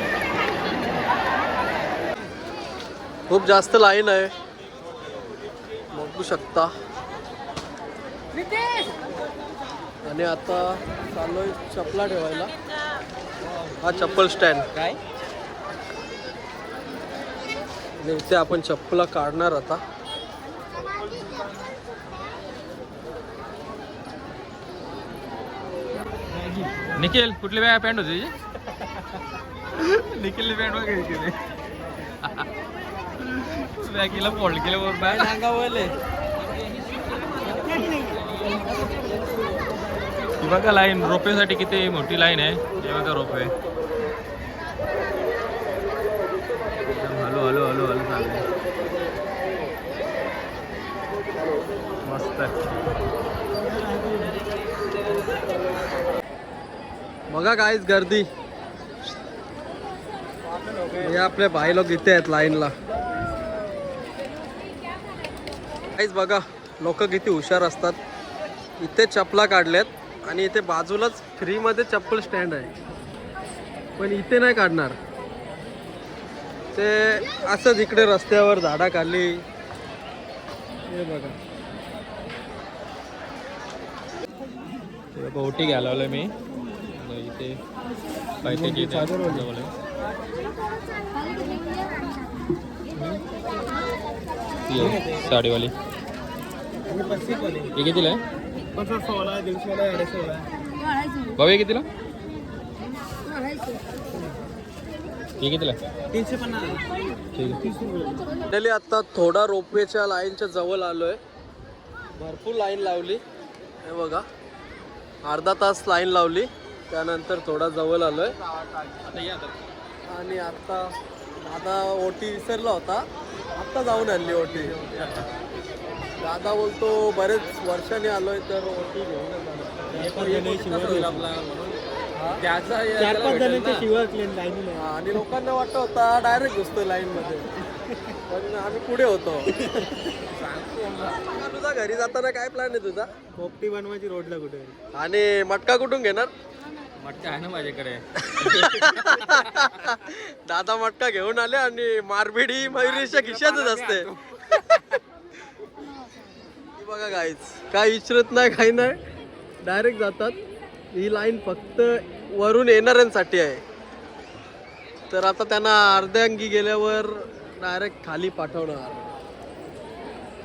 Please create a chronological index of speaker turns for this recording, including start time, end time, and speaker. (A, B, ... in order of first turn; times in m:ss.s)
0:03.3-0:04.3 A
0:05.9-0:06.7 A
0:10.0-0:12.5 A
0:13.8-0:14.7 A
0:18.0-0:19.8 A
0:26.8-0:28.4 B
0:29.8-0:31.4 B
0:33.2-0:35.8 B
0:35.1-0:35.9 A
0:37.7-0:38.0 C
0:40.4-0:43.5 B
0:46.8-0:48.5 B
0:52.0-0:52.6 B
0:53.6-0:54.4 C
0:57.3-0:58.3 A
1:00.7-1:01.1 C
1:01.0-1:02.7 A
1:06.0-1:08.0 A
1:08.8-1:12.7 A
1:14.0-1:15.0 A
1:16.7-1:19.4 A
1:20.9-1:21.4 A
1:25.2-1:26.3 B
1:26.9-1:27.6 B
1:28.4-1:29.7 B
1:28.4-1:29.5 C
1:33.0-1:33.2 C
1:34.7-1:35.7 B
1:34.7-1:35.4 C
1:36.9-1:37.7 C
1:37.8-1:38.2 B
1:38.7-1:40.5 C
1:41.4-1:41.9 B
1:45.4-1:45.8 B
1:46.1-1:46.9 C
1:47.4-1:47.6 B
1:47.5-1:48.4 C
1:48.4-1:51.2 A
1:52.2-1:53.2 A
1:53.8-1:54.2 A
1:55.2-1:58.4 A
1:59.0-1:59.6 B
2:00.1-2:00.9 A
2:01.4-2:04.8 A
2:04.2-2:05.3 B
2:06.2-2:10.0 A
2:09.9-2:11.8 B
2:09.9-2:11.3 C
2:12.2-2:12.4 A
2:12.4-2:13.9 B
2:12.9-2:14.9 C
2:14.8-2:17.5 A
2:18.3-2:19.6 A
2:20.4-2:21.2 B
2:21.2-2:23.1 A
2:23.4-2:24.8 C
2:24.9-2:26.3 A
2:27.0-2:29.8 B
2:28.3-2:34.1 A
2:32.8-2:34.1 B
2:36.8-2:39.0 A
2:39.6-2:40.4 A
2:40.9-2:43.6 A
2:45.1-2:49.0 A